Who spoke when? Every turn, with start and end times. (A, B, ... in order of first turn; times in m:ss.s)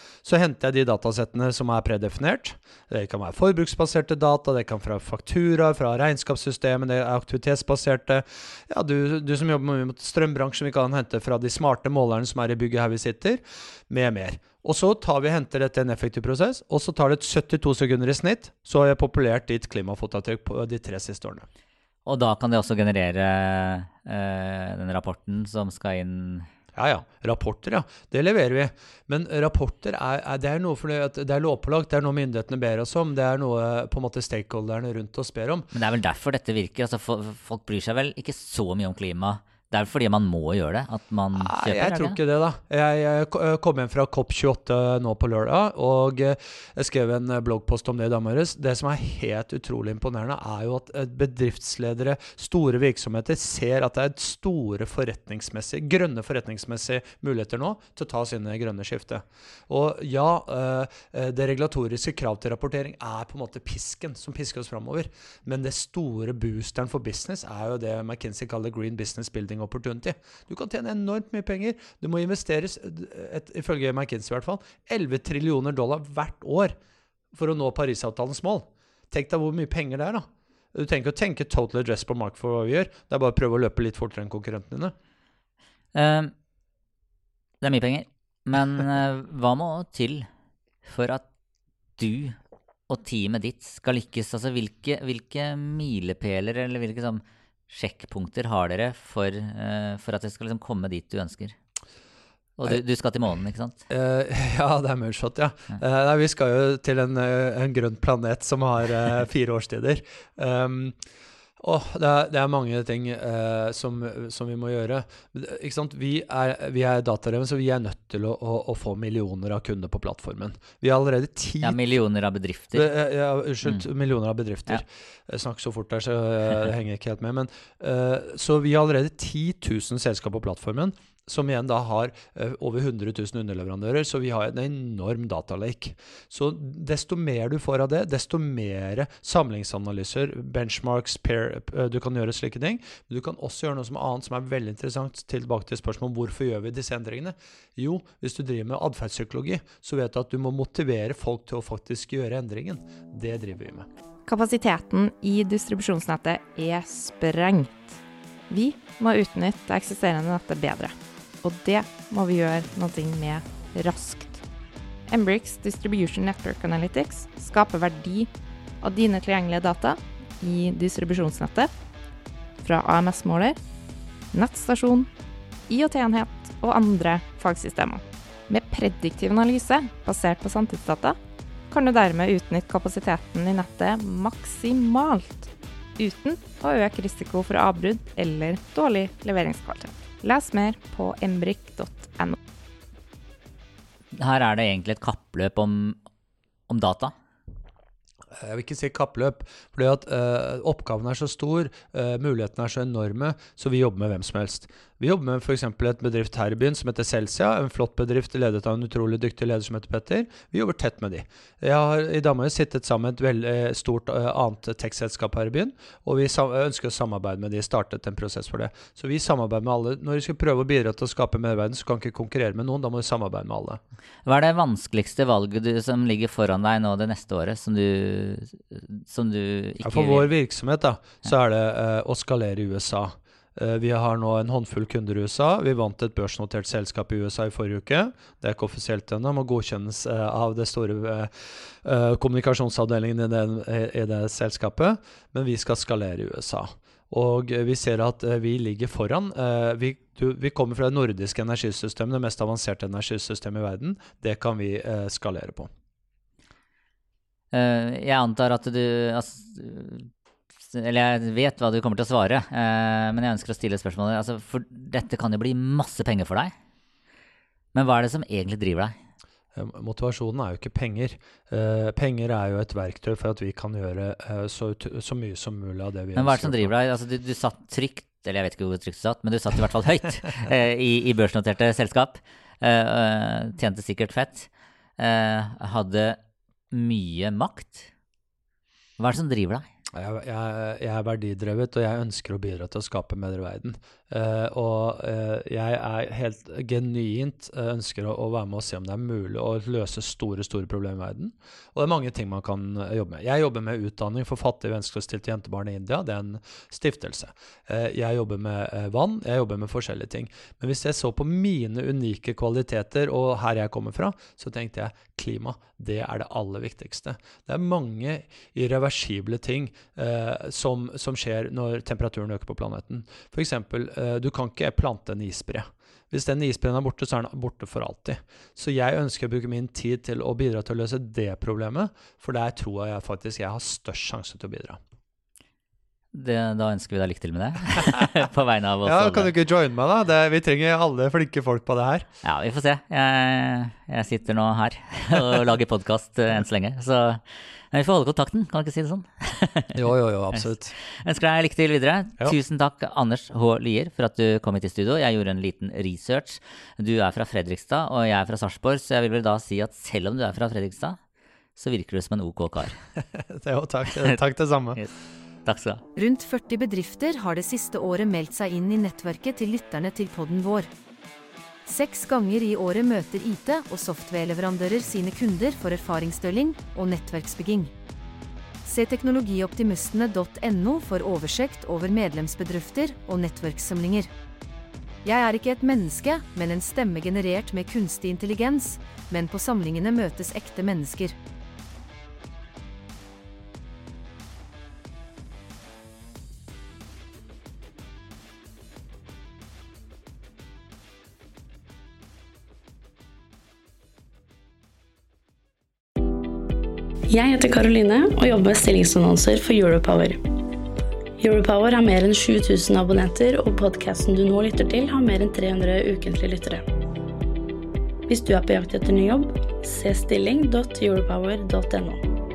0:00.2-0:21.5 A
0:22.0-0:26.5 B
0:26.8-0:35.7 A
0:35.7-0:42.2 B
0:41.4-1:16.7 A
1:17.3-1:24.9 A
1:25.9-1:26.3 B
1:27.6-1:30.2 B
1:30.8-1:31.2 B
1:32.0-1:32.4 B
1:32.9-1:41.6 B
1:42.6-1:43.8 B
1:43.9-1:51.0 A
1:51.6-2:01.8 A
2:01.6-2:02.9 B
2:02.7-2:33.9 A
2:34.3-2:37.9 C
2:38.5-2:44.4 C
2:45.1-2:48.3 C
2:48.8-2:51.7 C
2:52.6-2:53.6 C
2:54.3-2:55.1 C
2:55.7-3:01.2 C
3:01.7-3:12.4 C
3:14.1-3:16.0 B
3:16.7-3:17.1 B
3:18.4-3:43.8 A
3:44.2-3:50.3 B
3:49.8-4:01.3 A
4:01.8-4:15.7 A
4:17.5-4:20.1 B
4:20.6-4:26.5 B
4:27.7-4:28.9 B
4:29.5-4:36.7 A
4:36.2-4:46.2 B
4:46.7-4:47.9 B
4:49.0-4:49.6 B
4:49.9-5:34.8 A
5:36.1-5:39.3 B
5:38.8-5:42.0 A
5:42.2-5:49.8 B
5:49.8-5:50.7 A
5:50.3-6:01.0 B
6:01.6-6:02.8 B
6:03.1-6:04.8 A
6:04.0-6:04.2 B
6:05.4-6:05.8 B
6:06.0-6:10.7 D
6:11.7-6:17.7 D
6:18.7-6:24.1 D
6:25.0-6:31.2 D
6:47.1-6:50.2 E
6:51.2-6:56.6 E
6:58.1-7:02.0 E